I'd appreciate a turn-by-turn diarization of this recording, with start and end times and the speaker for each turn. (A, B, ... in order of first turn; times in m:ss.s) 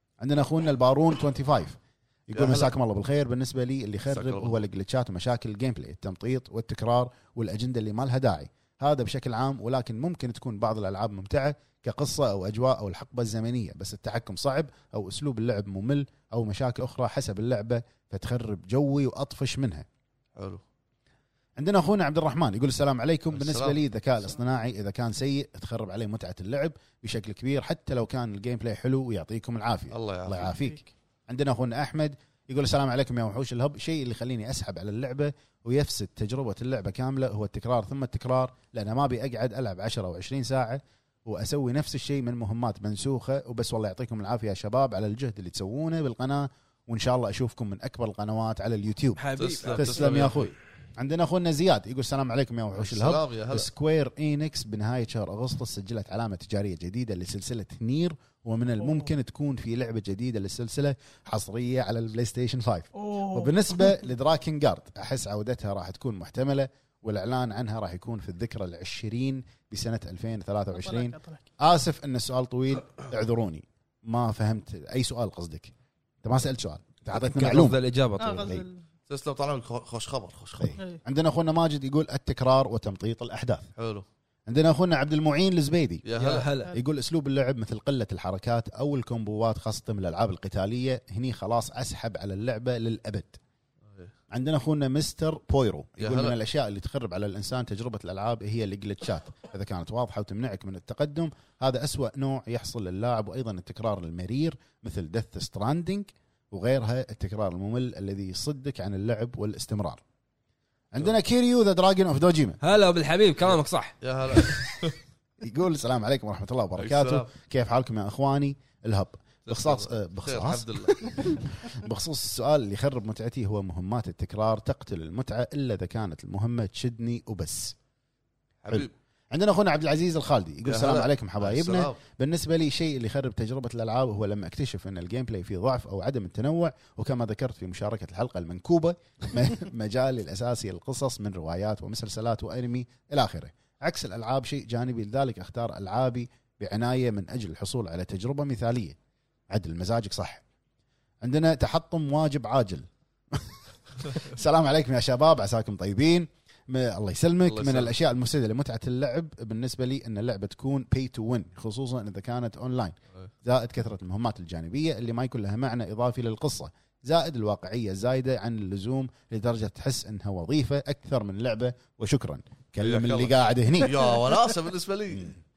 0:00.2-0:19.9 A
0:02.3-0:02.7 B
0:04.1-0:04.6 B
0:20.4-0:20.6 B
0:21.6-1:15.7 A
0:23.3-0:23.8 B
0:29.9-0:30.5 B
0:30.4-0:30.9 C
0:49.2-0:50.5 D
0:49.4-0:50.5 B
0:52.8-0:53.7 B
1:03.0-1:04.0 C
1:10.8-1:11.5 C
1:16.2-1:17.8 A
1:17.2-1:18.5 D
1:18.2-1:18.8 C
1:18.4-1:18.7 A
1:19.1-1:20.8 B
1:20.6-1:23.7 A
1:23.8-1:24.0 B
1:24.5-1:26.1 A
1:26.0-1:26.5 B
1:26.2-1:26.8 D
1:26.7-1:33.4 A
1:34.3-1:50.0 A
1:36.0-1:36.4 B
1:50.9-1:52.6 A
1:52.6-1:54.5 D
1:54.0-1:55.0 B
1:55.4-2:07.8 A
1:56.8-1:57.3 B
1:59.5-2:01.4 B
2:08.6-2:08.9 B
2:08.7-2:29.0 A
2:10.7-2:12.0 B
2:29.5-2:30.4 A
2:31.2-2:54.2 A
2:37.5-2:37.9 B
2:52.8-2:55.3 B